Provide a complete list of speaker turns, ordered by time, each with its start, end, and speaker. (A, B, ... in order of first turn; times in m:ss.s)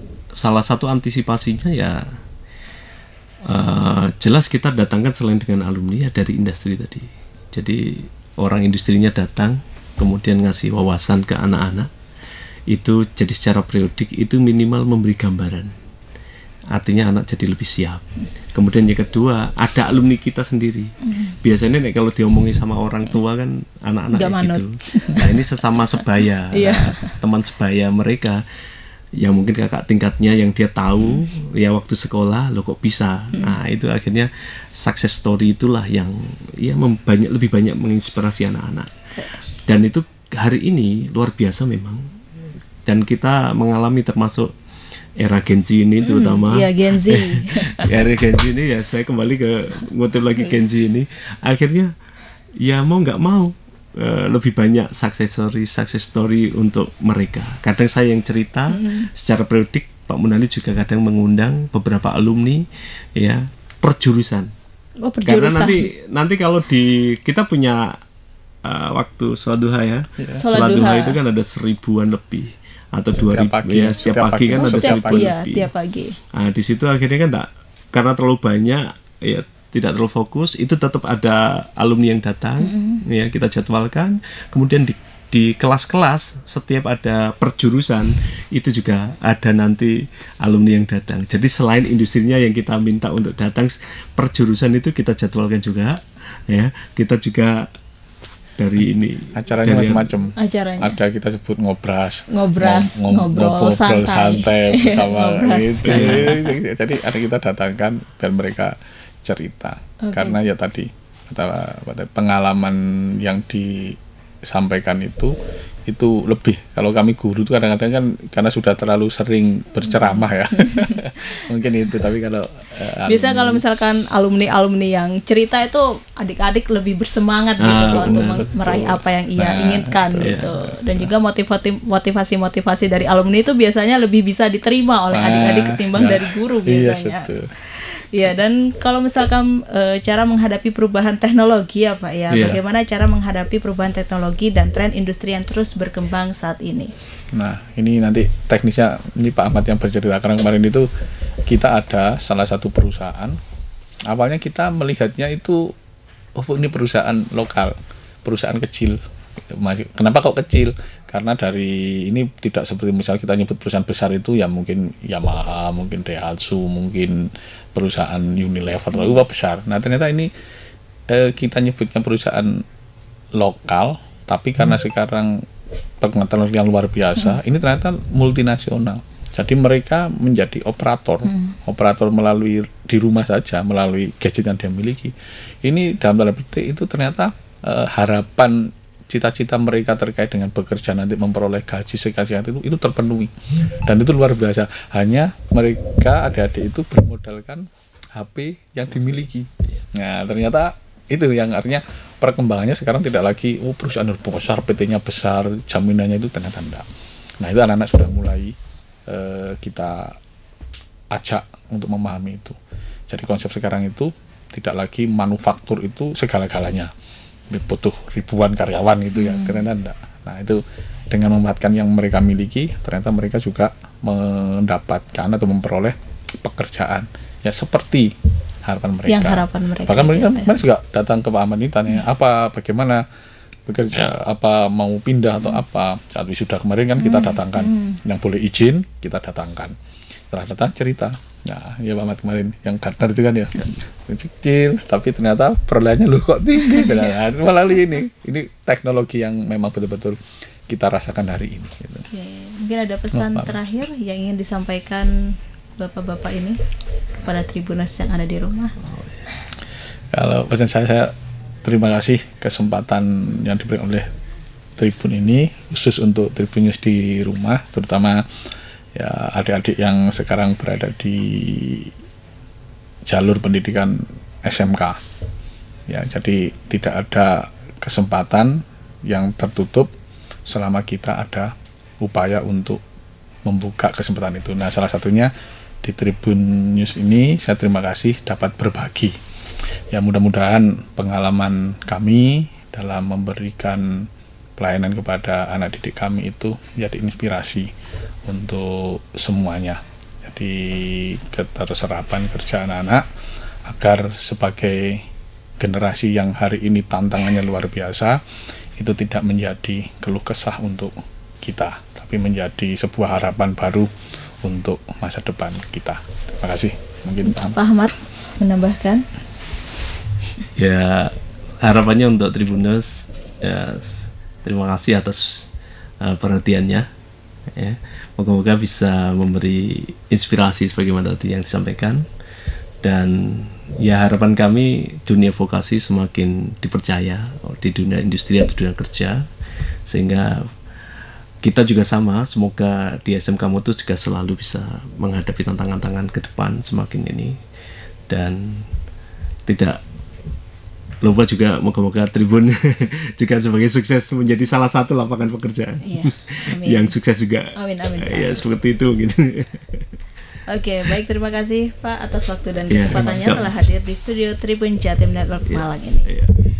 0:00.3-0:02.2 A
0:03.5-0:11.9 A
0:12.7-0:15.7 A
0:16.7-0:28.4 A
0:21.0-0:21.4 B
0:24.1-0:25.3 B
0:26.5-0:27.1 B
0:29.2-0:38.9 A
0:39.7-0:42.1 A
0:42.8-0:44.5 A
0:45.2-0:51.9 A
0:46.0-0:47.9 B
0:52.6-1:02.6 A
0:58.7-0:59.1 B
1:03.2-1:04.5 A
1:05.0-1:05.9 B
1:05.3-1:08.0 A
1:08.6-1:15.7 A
1:10.4-1:11.2 B
1:13.2-1:15.3 C
1:14.5-1:16.2 B
1:16.3-1:37.7 A
1:22.6-1:23.0 B
1:38.6-1:40.1 A
1:39.4-1:55.3 C
1:40.4-1:41.0 B
1:42.3-1:46.6 B
1:45.8-1:46.3 A
1:50.0-1:50.4 B
1:55.9-2:03.6 C
1:59.9-2:01.1 B
2:03.1-2:26.9 B
2:07.6-2:08.9 A
2:07.8-2:08.5 C
2:09.4-2:11.1 C
2:10.2-2:10.5 A
2:15.1-2:17.5 C
2:22.3-2:22.6 A
2:27.3-2:30.9 C
2:31.5-2:33.4 C
2:34.1-2:35.7 C
2:36.4-2:37.7 C
2:38.2-2:39.0 C
2:39.5-2:50.3 C
2:51.1-2:52.6 C
2:53.4-2:55.4 C
2:56.0-3:05.1 C
3:01.3-3:01.5 B
3:05.6-3:26.9 C
3:27.4-3:28.6 C
3:29.1-3:30.2 C
3:31.1-3:32.6 C
3:33.1-3:36.9 C
3:37.5-3:48.1 C
3:39.2-3:39.6 B
3:48.6-3:53.0 C
3:49.1-3:50.5 B
3:53.7-3:59.8 C
3:57.0-3:58.0 B
4:00.3-4:12.1 C
4:06.7-4:07.1 B
4:12.1-4:15.1 B
4:13.1-4:13.5 C
4:15.8-4:16.6 B
4:17.2-4:18.7 B
4:20.1-4:21.1 C
4:21.6-4:24.1 C
4:24.8-4:28.3 C
4:29.0-4:31.9 C
4:33.1-4:35.0 C
4:35.9-4:39.9 C
4:40.5-4:42.8 C
4:43.5-4:45.3 C
4:45.8-4:49.2 C
4:49.9-4:57.7 C
4:58.3-5:03.0 C
5:03.7-5:05.0 C
5:05.6-5:08.2 C
5:08.8-5:13.9 C
5:14.4-5:17.6 C
5:17.3-5:19.0 B
5:20.6-5:25.5 A
5:26.0-5:26.9 A
5:27.6-5:32.1 A
5:32.8-5:39.2 A
5:39.9-5:40.5 A
5:41.4-5:47.4 A
5:48.1-5:48.7 A
5:49.5-5:49.8 A
5:51.0-5:59.9 A
5:55.8-5:56.9 B
5:57.6-5:58.4 B
6:00.5-6:06.1 B
6:02.7-6:03.5 A
6:05.5-6:06.3 A